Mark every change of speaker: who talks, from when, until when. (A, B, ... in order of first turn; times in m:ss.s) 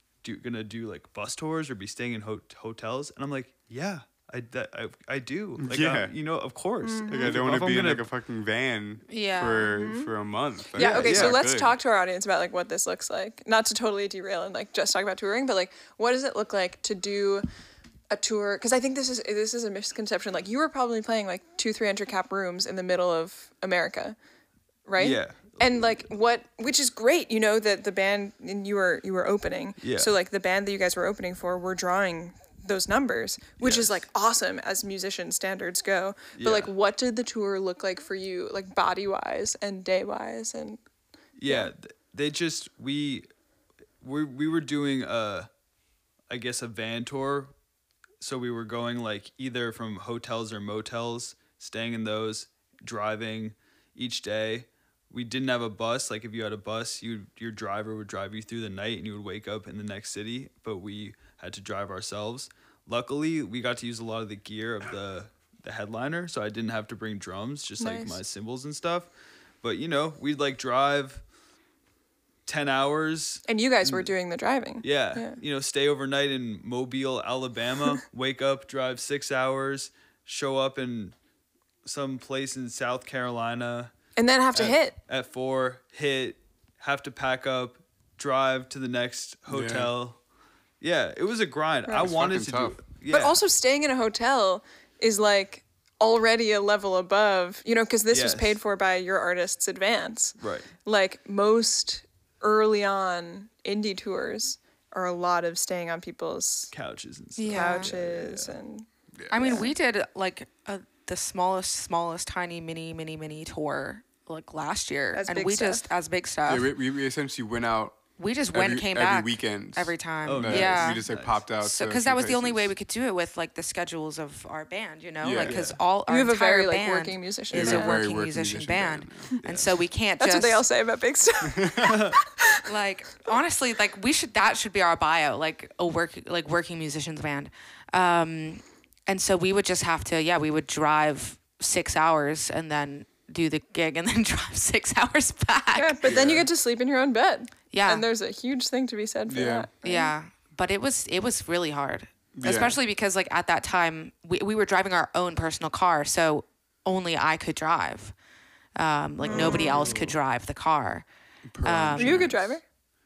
0:00.2-0:08.0 A
0:05.6-0:06.1 B
0:06.8-0:07.3 C
0:07.1-0:11.8 B
0:09.1-0:09.7 D
0:09.7-0:10.1 C
0:10.7-0:17.4 C
0:10.8-0:11.4 A
0:18.1-0:24.2 C
0:24.8-0:40.8 C
0:25.0-0:26.0 A
0:29.8-0:30.1 A
0:33.6-0:34.0 A
0:36.3-0:36.7 A
0:41.4-0:43.2 A
0:41.4-0:41.7 C
0:44.0-0:45.5 A
0:46.3-0:47.5 A
0:48.2-1:09.1 A
1:07.8-1:08.2 C
1:09.6-1:11.2 A
1:12.4-1:14.1 A
1:13.5-1:15.4 C
1:14.8-1:21.1 A
1:21.8-1:23.9 A
1:24.2-1:25.0 C
1:24.5-1:30.2 A
1:29.5-1:29.9 B
1:30.8-1:33.4 A
1:32.0-1:32.8 B
1:33.1-1:46.7 C
1:38.1-1:38.6 A
1:40.4-1:40.7 A
1:46.7-1:48.6 A
1:47.4-1:47.9 D
1:47.5-1:49.7 C
1:49.1-1:49.6 B
1:49.3-1:56.7 D
1:55.1-1:55.8 C
1:56.5-1:58.0 B
1:58.2-2:01.0 D
1:58.5-2:02.7 B
2:00.2-2:01.4 A
2:01.6-2:10.6 D
2:05.2-2:05.6 B
2:05.4-2:05.8 A
2:06.1-2:08.0 C
2:07.5-2:09.3 B
2:09.4-2:09.7 A
2:10.2-2:12.7 C
2:11.4-2:12.0 B
2:11.8-2:12.2 A
2:12.6-2:26.0 D
2:25.7-2:30.1 C
2:26.0-2:26.5 B
2:27.7-2:28.0 D
2:29.3-2:29.7 B
2:29.8-2:38.1 D
2:32.4-2:32.8 B
2:38.8-2:41.0 D
2:39.2-2:39.9 C
2:39.3-2:40.2 A
2:41.5-2:42.4 B
2:41.6-2:42.4 D
2:42.0-2:42.6 C